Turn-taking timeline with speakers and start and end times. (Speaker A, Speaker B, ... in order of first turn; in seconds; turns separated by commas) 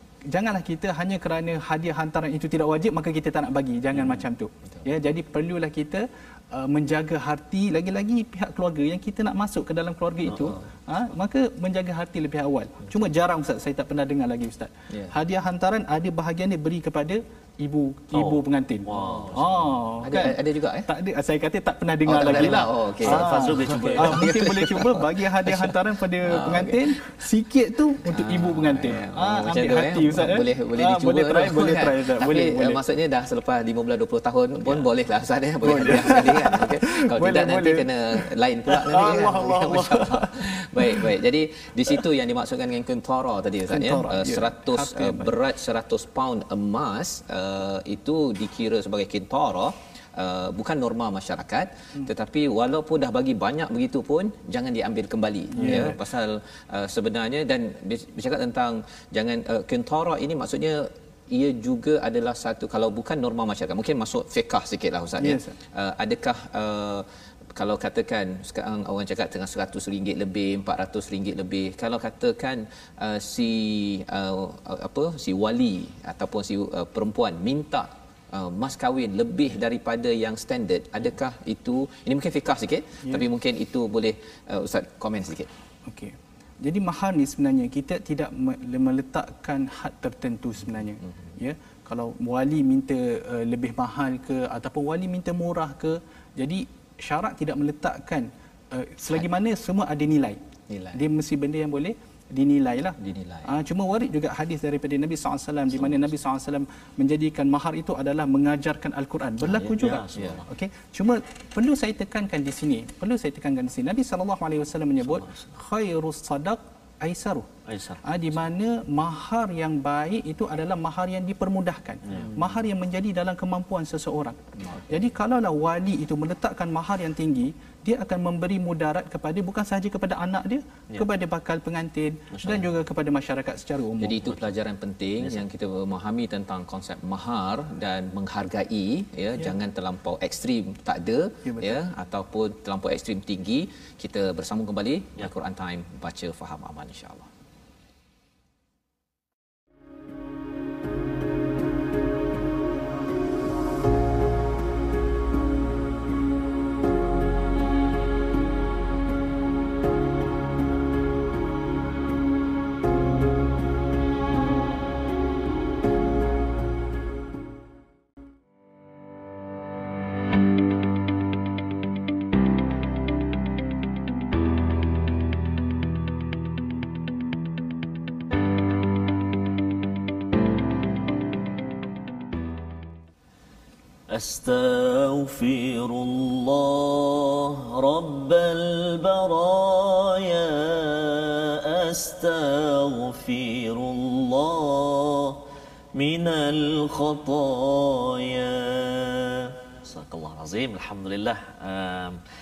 Speaker A: 0.3-32.8, Speaker B: 18.1-19.7, Speaker C: 19.0-19.4, Speaker C: 20.0-20.9, Speaker C: 22.1-26.9, Speaker B: 22.3-24.5, Speaker C: 28.0-85.5, Speaker A: 35.6-37.9, Speaker A: 38.7-41.0, Speaker A: 43.7-45.3, Speaker A: 55.5-56.0, Speaker A: 65.2-65.5, Speaker A: 85.9-100.4, Speaker C: 100.7-101.0, Speaker A: 100.9-117.5, Speaker C: 103.0-103.5, Speaker C: 109.4-110.4, Speaker B: 109.8-110.5, Speaker B: 115.2-115.5, Speaker B: 117.7-118.1, Speaker A: 118.0-134.2, Speaker B: 122.1-122.3, Speaker C: 122.1-122.4, Speaker C: 124.6-125.0, Speaker C: 134.0-147.3, Speaker A: 141.4-141.7, Speaker B: 184.1-195.4, Speaker B: 195.9-202.2